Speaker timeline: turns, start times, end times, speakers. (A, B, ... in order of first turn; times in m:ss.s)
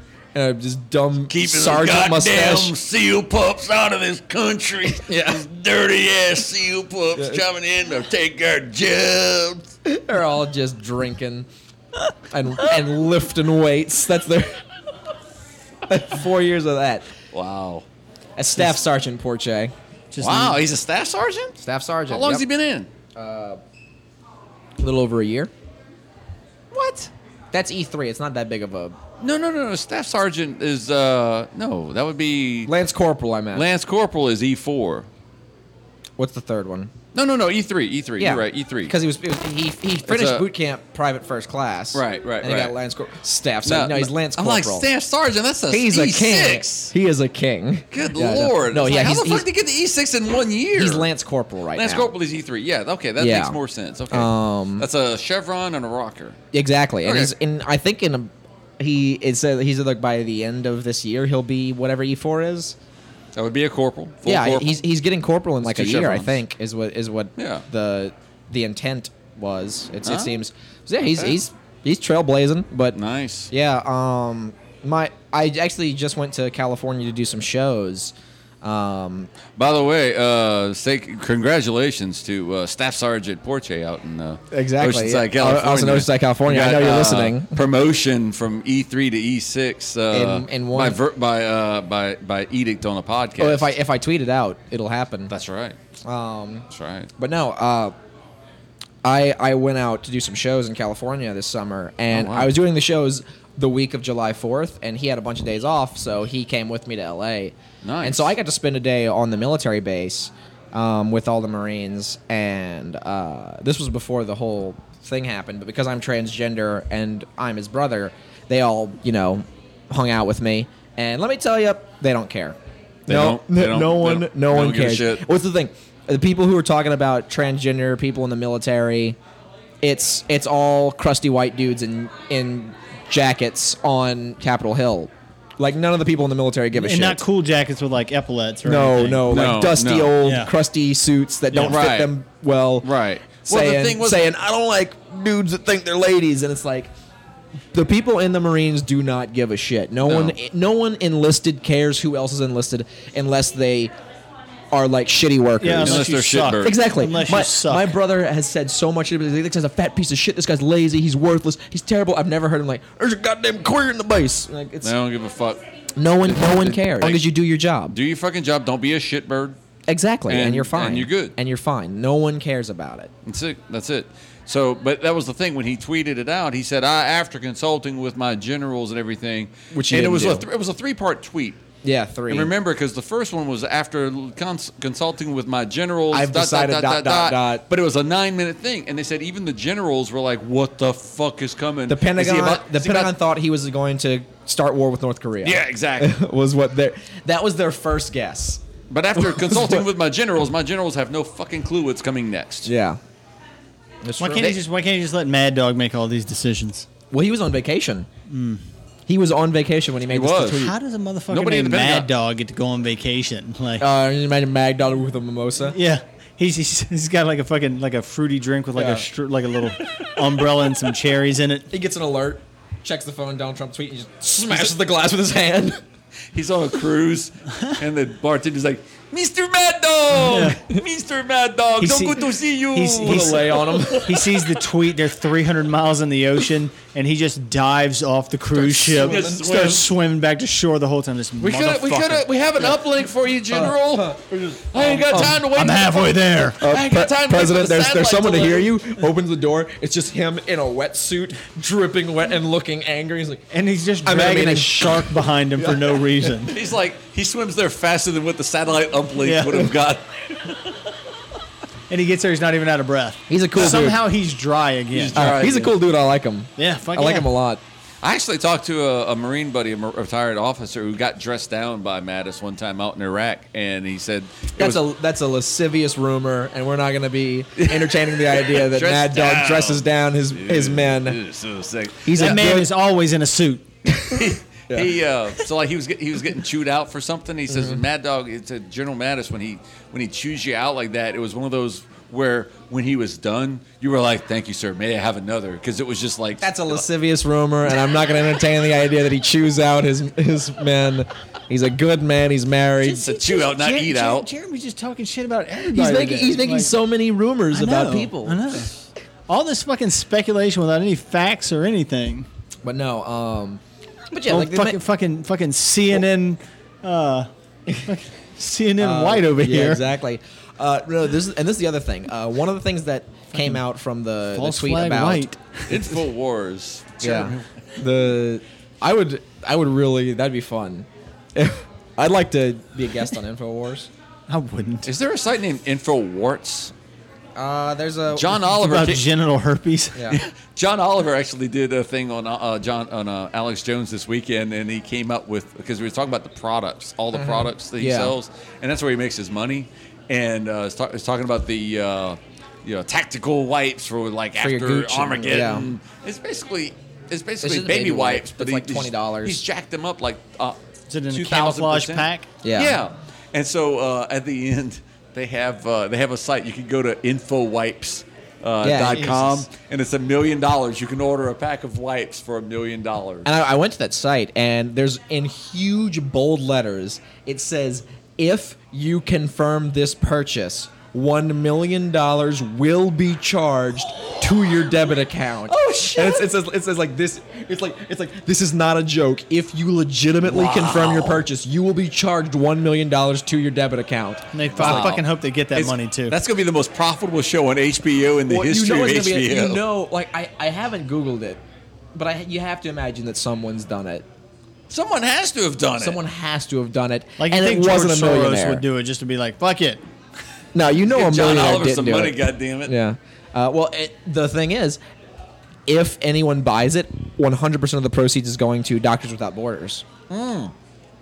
0:00.3-0:02.7 A
0:01.3-0:09.7 B
0:05.0-0:05.4 A
0:07.2-0:07.4 A
0:09.8-0:11.5 A
0:12.3-0:14.6 A
0:15.9-0:17.1 A
0:17.3-0:17.8 B
0:18.4-0:19.7 A
0:20.1-0:20.6 C
0:20.2-0:21.6 B
0:21.6-0:22.4 A
0:22.1-0:22.9 B
0:23.1-0:23.6 A
0:24.8-0:25.5 A
0:26.7-0:27.1 B
0:27.5-0:29.0 A
0:29.2-0:32.7 B
0:32.7-0:33.6 A
0:33.5-0:35.1 B
0:36.2-0:36.9 A
0:37.1-0:38.9 B
0:38.2-0:44.9 A
0:40.1-0:40.5 B
0:41.9-0:42.7 B
0:43.6-0:46.9 B
0:45.7-0:49.5 A
0:47.9-0:51.1 B
0:50.7-0:52.1 A
0:51.7-0:56.4 B
0:53.2-0:53.6 A
0:54.1-0:54.8 A
0:56.5-1:02.8 A
0:57.0-0:57.3 B
1:03.3-1:04.8 B
1:04.2-1:13.0 A
1:05.6-1:06.4 B
1:07.4-1:07.6 B
1:10.0-1:10.4 B
1:11.0-1:11.4 B
1:12.9-1:13.5 B
1:13.5-1:19.3 A
1:19.5-1:33.7 B
1:24.5-1:27.6 A
1:30.1-1:31.0 A
1:33.4-1:35.3 A
1:35.3-1:35.8 B
1:36.0-1:36.6 A
1:36.7-1:37.1 B
1:37.2-1:37.9 A
1:39.0-2:09.2 A
1:42.1-1:42.5 B
1:47.8-1:48.3 B
2:03.1-2:05.2 B
2:09.8-2:17.2 A
2:16.7-2:19.3 C
2:18.6-2:26.9 A
2:19.3-2:20.2 B
2:20.2-2:20.5 C
2:21.5-2:21.8 C
2:21.6-2:22.1 B
2:22.8-2:24.3 B
2:27.7-2:33.9 A
2:30.0-2:30.4 B
2:34.7-2:36.0 A
2:35.6-2:37.9 C
2:35.8-2:36.8 B
2:36.6-2:44.9 A
2:44.8-2:45.6 B
2:46.0-2:47.9 A
2:46.2-2:47.2 B
2:47.9-2:49.6 B
2:49.9-2:53.1 A
2:50.3-2:51.3 B
2:53.2-3:01.6 B
2:59.7-3:00.5 A
3:01.8-3:02.5 A
3:02.3-3:13.1 B
3:06.1-3:07.6 A
3:11.9-3:18.6 A
3:15.4-3:16.1 B
3:18.9-3:22.7 B
3:19.2-3:19.8 A
3:22.6-3:23.0 A
3:24.0-3:24.5 A
3:24.2-3:26.9 C
3:27.1-3:28.1 A
3:28.3-3:28.6 C
3:29.1-3:30.7 A
3:30.1-3:30.7 B
3:30.5-3:33.8 C
3:31.3-3:32.1 B
3:33.8-3:35.8 A
3:35.7-3:41.7 C
3:41.7-3:45.8 A
3:46.3-3:54.6 B
3:50.1-3:50.6 C
3:51.8-3:53.5 C
3:52.7-3:54.2 A
3:54.0-4:02.3 C
3:58.5-3:59.9 B
3:58.9-3:59.5 A
4:01.4-4:08.8 B
4:03.5-4:05.4 A
4:05.1-4:06.7 C
4:06.6-4:13.4 A
4:13.5-4:16.6 C
4:14.0-4:16.0 A
4:16.4-4:20.6 B
4:19.2-4:19.7 C
4:21.9-4:25.3 C
4:23.3-4:24.0 A
4:24.9-4:25.7 B
4:25.1-4:27.6 A
4:26.6-4:27.3 C
4:28.0-4:34.8 B
4:34.6-4:41.2 A
4:37.6-4:42.4 B
4:42.0-4:42.7 A
4:42.1-4:43.7 C
4:43.9-4:44.2 A
4:44.1-4:56.8 B
4:47.5-4:47.8 A
4:56.4-5:03.1 A
5:02.8-5:04.3 B
5:02.8-5:06.7 C
5:05.7-5:08.6 A
5:07.5-5:08.7 C
5:09.3-5:12.3 C
5:12.6-5:14.8 A
5:14.3-5:17.3 C
5:17.8-5:19.8 C
5:18.8-5:25.3 A
5:23.3-5:23.6 C
5:24.3-5:26.0 C
5:25.7-5:27.4 B
5:27.0-5:33.9 A
5:34.3-5:34.9 C
5:34.8-5:36.7 B
5:37.4-5:38.4 A
5:38.1-5:39.1 B
5:38.5-5:40.2 C
5:39.9-5:40.2 A
5:40.1-6:00.6 B
5:47.1-5:48.1 A
5:54.4-5:55.7 A
5:57.4-5:59.4 A
6:00.9-6:02.3 C
6:01.1-6:13.3 B
6:02.4-6:02.8 A
6:08.6-6:09.3 A
6:08.9-6:09.4 C
6:13.2-6:34.9 A
6:25.5-6:26.3 B
6:30.2-6:31.2 B
6:34.3-6:36.2 C
6:34.6-6:39.6 B
6:38.3-6:41.4 A
6:41.9-6:44.0 A
6:44.7-6:46.0 B
6:45.8-6:48.6 A
6:47.2-6:49.8 C
6:50.5-6:54.8 A
6:50.8-6:52.7 B
6:55.7-6:59.8 A
7:00.1-7:00.5 B